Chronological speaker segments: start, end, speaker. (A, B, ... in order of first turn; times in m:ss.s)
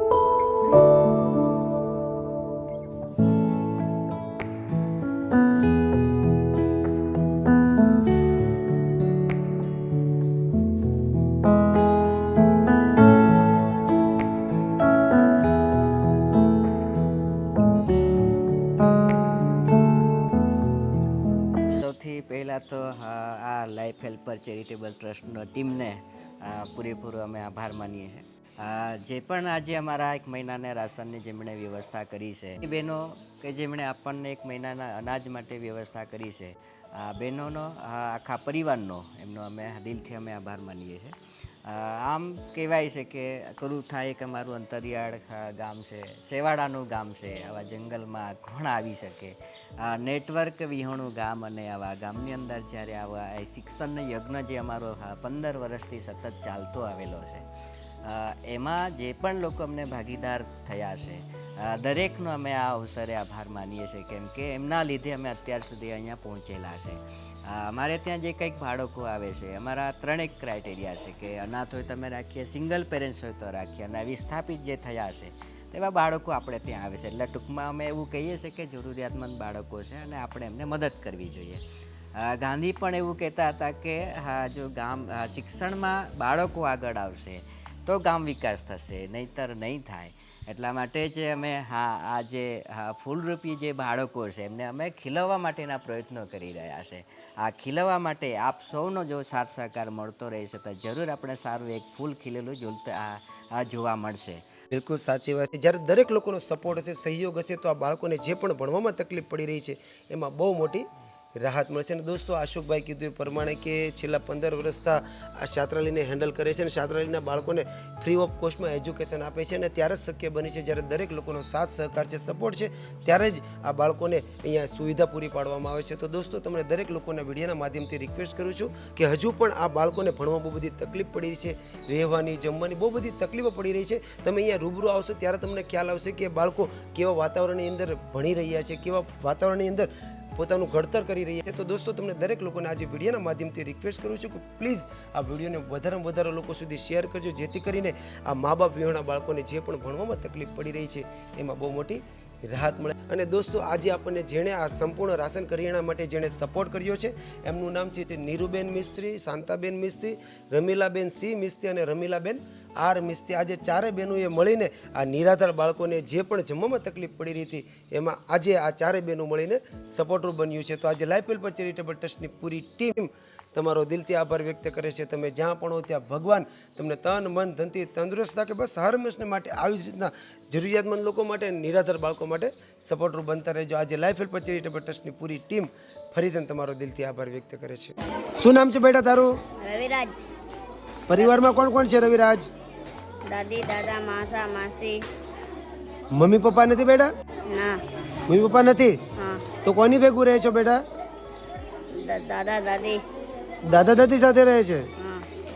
0:21.7-0:57.4 A
0:58.0-1:21.6 A
1:22.1-1:44.4 A
1:44.7-1:50.9 B
1:51.4-3:09.3 B
3:09.6-3:10.1 C
3:11.1-3:12.5 B
3:13.3-3:15.0 C
3:16.1-3:17.1 B
3:17.5-3:17.8 C
3:18.3-3:19.0 B
3:19.2-3:19.5 C
3:19.6-3:20.8 B
3:22.0-3:23.0 C
3:23.7-3:24.9 B
3:25.0-3:25.2 C